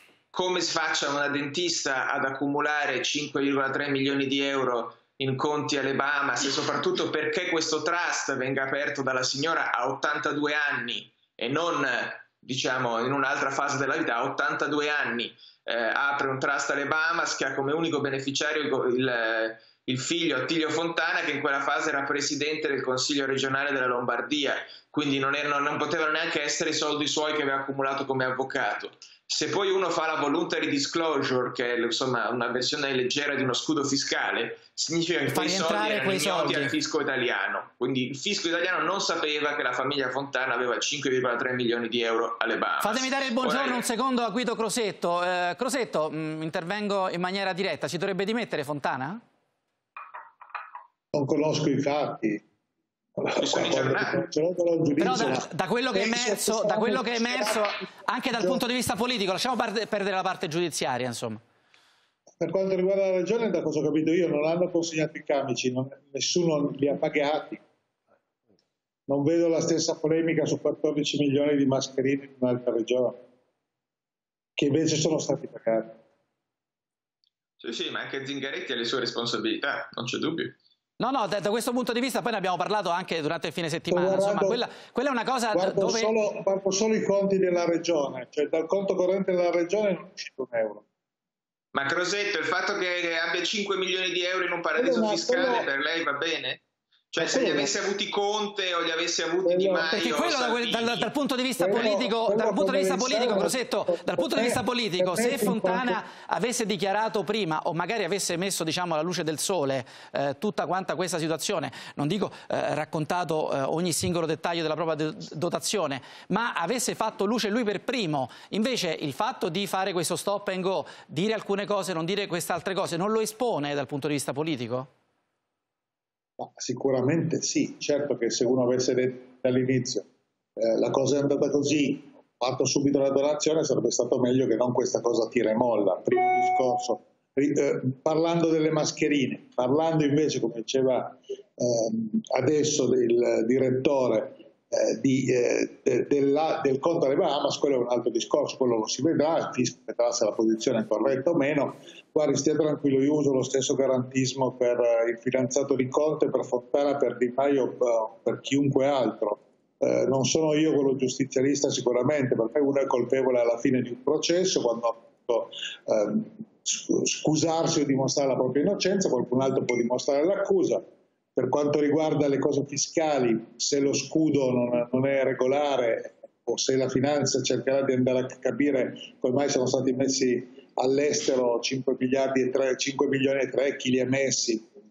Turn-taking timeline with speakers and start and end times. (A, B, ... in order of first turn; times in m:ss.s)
0:00.3-0:43.8 A
0:35.3-0:36.7 B
0:42.8-0:49.2 B
0:51.1-0:52.4 C
0:53.2-0:57.6 C
0:53.4-0:54.2 A
0:55.0-1:01.4 B
1:02.4-1:07.6 C
1:09.1-1:13.2 C
1:14.6-1:16.0 C
1:17.6-1:20.6 A
1:21.0-1:26.1 B
1:23.9-1:24.6 C
1:25.5-1:30.8 C
1:31.7-1:41.1 A
1:34.8-1:35.7 C
1:37.2-1:37.7 C
1:39.4-1:39.9 C
1:39.9-2:04.9 B
1:41.6-1:46.0 C
2:06.4-2:10.0 C
2:10.6-2:50.8 C
2:51.4-3:04.7 C